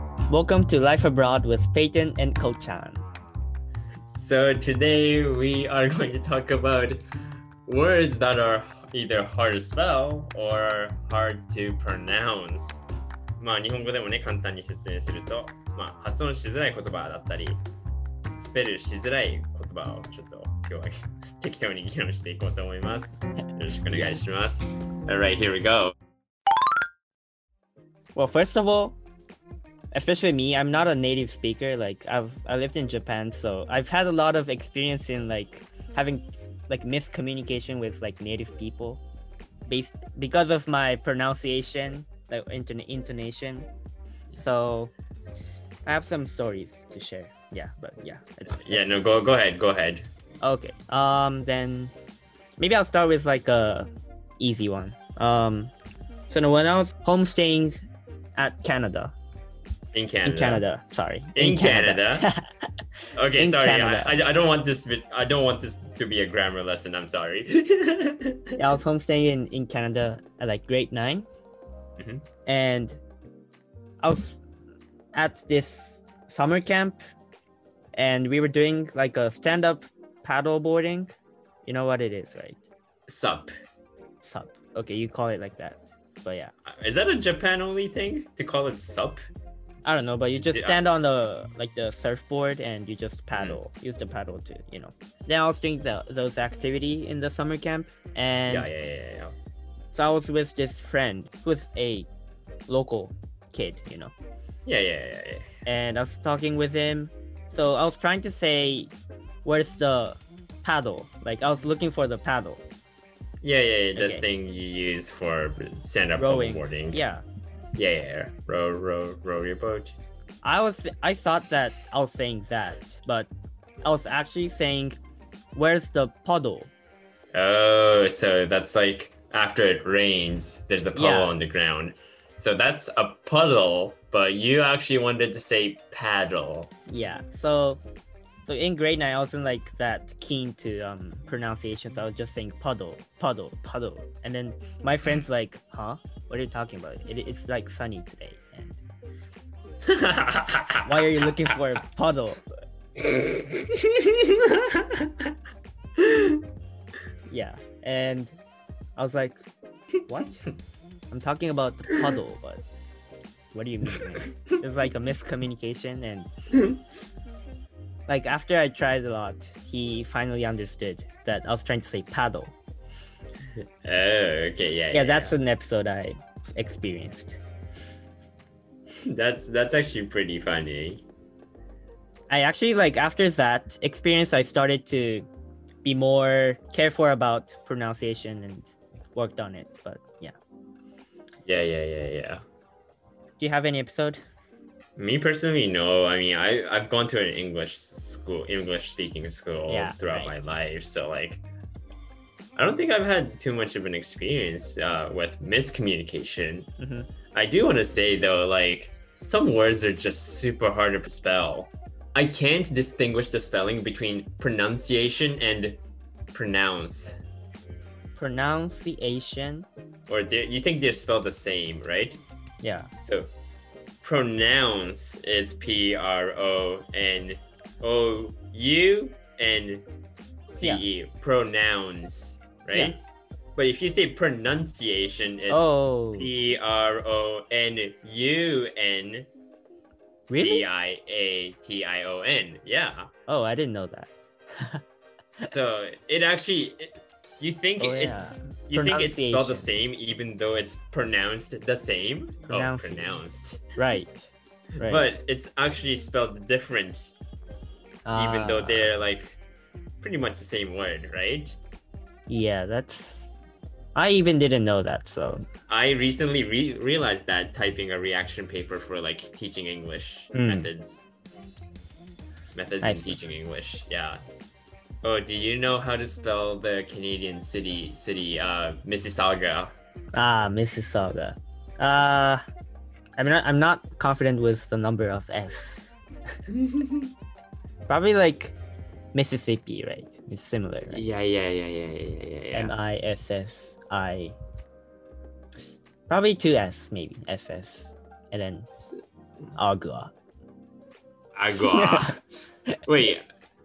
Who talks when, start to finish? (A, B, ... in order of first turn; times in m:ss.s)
0:00.3-0:03.0 A
0:04.1-0:07.0 B
0:07.7-0:12.8 B
0:13.4-0:17.6 B
0:18.4-0:26.0 B
0:28.2-0:29.0 A
0:29.9-0:39.0 A
0:39.7-0:43.7 A
0:44.4-0:44.9 A
0:45.9-0:48.9 A
0:48.5-0:50.1 B
0:50.4-0:51.9 A
0:52.6-0:55.7 A
0:56.3-0:57.8 A
0:58.4-0:59.1 A
0:59.9-1:00.6 B
1:00.2-1:02.7 A
1:01.4-1:02.3 B
1:03.2-1:08.6 B
1:03.3-1:04.2 A
1:08.6-1:11.3 A
1:12.0-1:12.2 B
1:12.5-1:13.0 A
1:14.0-1:14.4 A
1:15.1-1:17.0 A
1:18.0-1:21.1 A
1:21.6-1:22.6 A
1:23.1-1:23.5 B
1:24.2-1:26.5 A
1:26.7-1:29.2 B
1:29.8-1:38.7 A
1:30.4-1:30.8 B
1:38.5-1:39.4 B
1:39.9-1:42.1 A
1:42.7-1:44.1 A
1:44.7-1:45.5 B
1:45.7-1:48.9 A
1:49.4-1:52.6 A
1:53.4-1:57.0 B
1:54.0-1:54.3 A
1:56.2-1:57.2 A
1:57.8-2:00.0 B
2:00.4-2:03.3 A
2:03.8-2:05.0 A
2:05.5-2:06.7 A
2:07.3-2:16.7 B
2:11.0-2:11.4 A
2:16.9-2:17.8 A
2:18.5-2:28.8 A
2:29.9-2:30.9 B
2:30.9-2:32.5 A
2:33.0-2:35.3 B
2:36.0-2:36.4 B
2:37.3-2:38.4 A
2:39.0-2:39.4 A
2:40.1-2:40.4 A
2:41.1-2:42.7 A
2:43.5-2:46.3 A
2:48.1-2:52.6 A
2:53.8-2:55.4 B
2:54.9-2:57.4 A
2:59.1-3:01.0 B
3:02.3-3:05.3 A
3:05.8-3:10.4 A
3:11.4-3:12.4 B
3:13.4-3:14.2 A
3:15.0-3:21.4 B
3:19.7-3:20.4 A
3:22.6-3:26.7 B
3:26.8-3:27.1 A
3:27.3-3:35.8 B
3:36.3-3:37.2 B
3:38.2-3:39.7 A
3:40.1-3:42.2 B
3:42.6-3:42.9 A
3:43.0-3:43.3 B
3:44.0-3:49.9 B
3:50.5-3:53.0 B
3:53.6-3:59.3 B
3:55.5-3:56.3 A
4:00.3-4:03.1 B
4:00.3-4:00.7 A
4:03.3-4:04.8 A
4:05.4-4:13.6 B
4:07.8-4:09.7 A
4:12.5-4:13.2 A
4:13.8-4:15.1 A
4:14.8-4:17.1 B
4:18.0-4:18.9 A
4:18.1-4:19.4 B
4:20.0-4:21.6 B
4:22.3-4:23.3 A
4:24.0-4:25.5 A
4:25.7-4:31.1 B
4:30.3-4:30.7 A
4:32.5-4:34.2 B
4:32.8-4:33.2 A
4:35.0-4:39.7 B
4:40.2-4:42.4 A
4:43.2-4:46.0 A
4:46.7-4:46.9 B
4:47.9-4:48.6 A
4:49.1-4:51.0 A
4:50.9-4:52.8 B
4:52.5-4:54.4 A
4:56.1-4:58.7 A
4:59.6-5:00.1 A
5:01.4-5:02.2 B
5:01.7-5:02.2 A
5:02.8-5:03.3 B